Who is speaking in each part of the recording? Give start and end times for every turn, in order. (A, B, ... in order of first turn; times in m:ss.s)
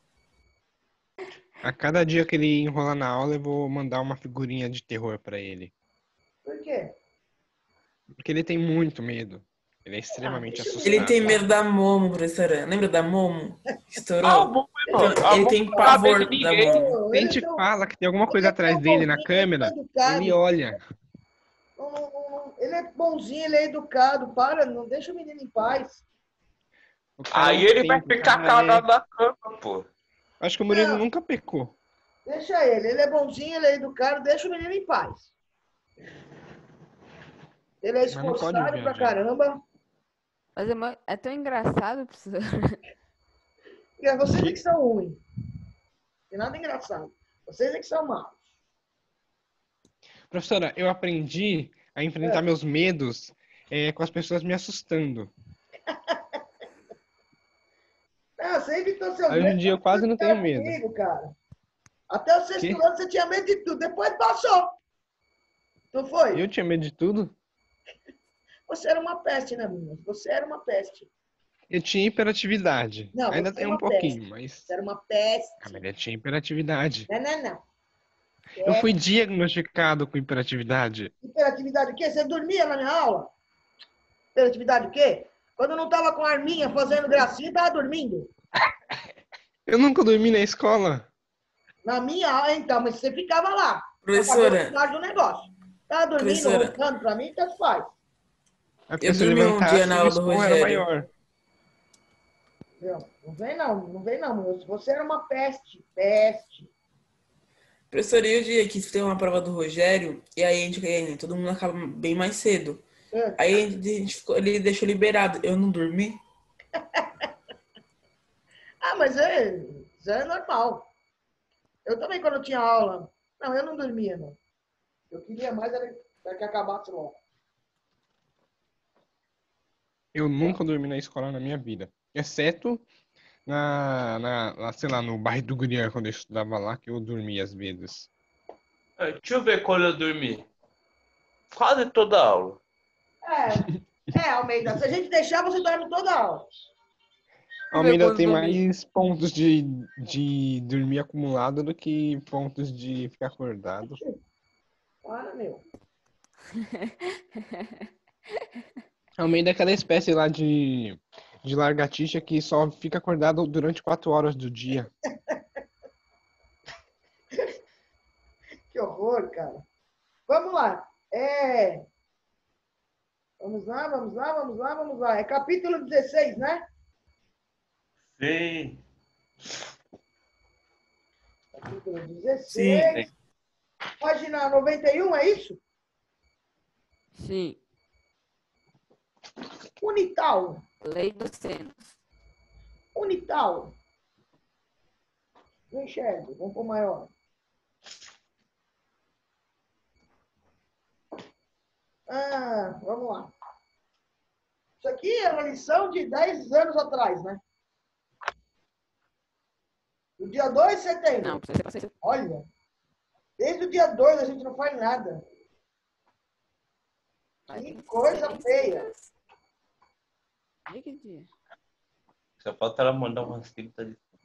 0:01.6-0:05.7 A
0:06.4-0:06.9 B
0:08.2-0:11.4 A
0:10.2-0:11.4 B
0:10.8-0:16.9 C
0:14.2-0:16.9 D
0:14.9-0:16.0 B
0:16.6-0:17.6 B
0:17.1-0:20.8 A
0:18.3-0:20.4 B
0:21.8-0:26.0 B
0:27.2-0:28.8 A
0:27.3-0:29.9 D
0:30.4-0:31.8 A
0:30.7-0:31.0 B
0:32.2-0:35.3 B
0:37.8-0:39.6 B
0:38.1-0:39.2 A
0:40.6-0:42.8 E
0:44.0-0:45.2 B
0:46.3-0:48.4 B
0:50.3-0:55.3 A
0:55.9-0:56.2 B
0:58.4-1:01.4 B
0:59.3-1:00.8 A
1:02.1-1:04.8 B
1:05.9-1:06.4 B
1:06.3-1:07.3 A
1:08.7-1:11.1 B
1:11.7-1:14.7 A
1:13.1-1:15.8 B
1:15.6-1:17.1 A
1:17.1-1:17.6 B
1:18.6-1:18.9 B
1:18.6-1:21.1 A
1:21.2-1:23.3 B
1:24.3-1:28.3 B
1:29.7-1:31.1 A
1:31.8-1:37.9 B
1:34.1-1:34.8 C
1:36.2-1:36.8 C
1:38.9-1:41.1 A
1:39.0-1:40.8 C
1:42.8-1:46.7 B
1:47.9-1:52.8 C
1:53.1-1:53.4 B
1:53.4-1:56.2 C
1:58.8-2:00.9 B
2:01.8-2:04.4 B
2:05.1-2:07.2 B
2:10.1-2:12.8 A
2:13.4-2:18.1 A
2:19.0-2:20.4 D
2:21.5-2:22.6 D
2:23.2-2:26.4 B
2:27.7-2:34.0 A
2:27.7-2:28.6 E
2:35.0-2:35.6 B
2:39.2-2:44.9 A
2:48.7-2:49.6 B
2:50.3-2:51.8 B
2:53.4-2:56.6 B
2:58.2-2:58.8 D
3:01.5-3:03.1 B
3:02.5-3:03.1 D
3:04.0-3:05.6 B
3:07.2-3:07.6 E
3:09.8-3:10.6 B
3:10.8-3:11.8 E
3:12.9-3:13.7 B
3:15.7-3:17.1 B
3:22.1-3:23.3 B
3:24.8-3:27.4 B
3:30.2-3:31.4 B
3:31.2-3:31.9 E
3:32.0-3:32.4 B
3:33.4-3:35.2 B
3:37.5-3:39.0 E
3:37.5-3:38.8 B
3:40.7-3:41.3 E
3:42.4-3:44.0 D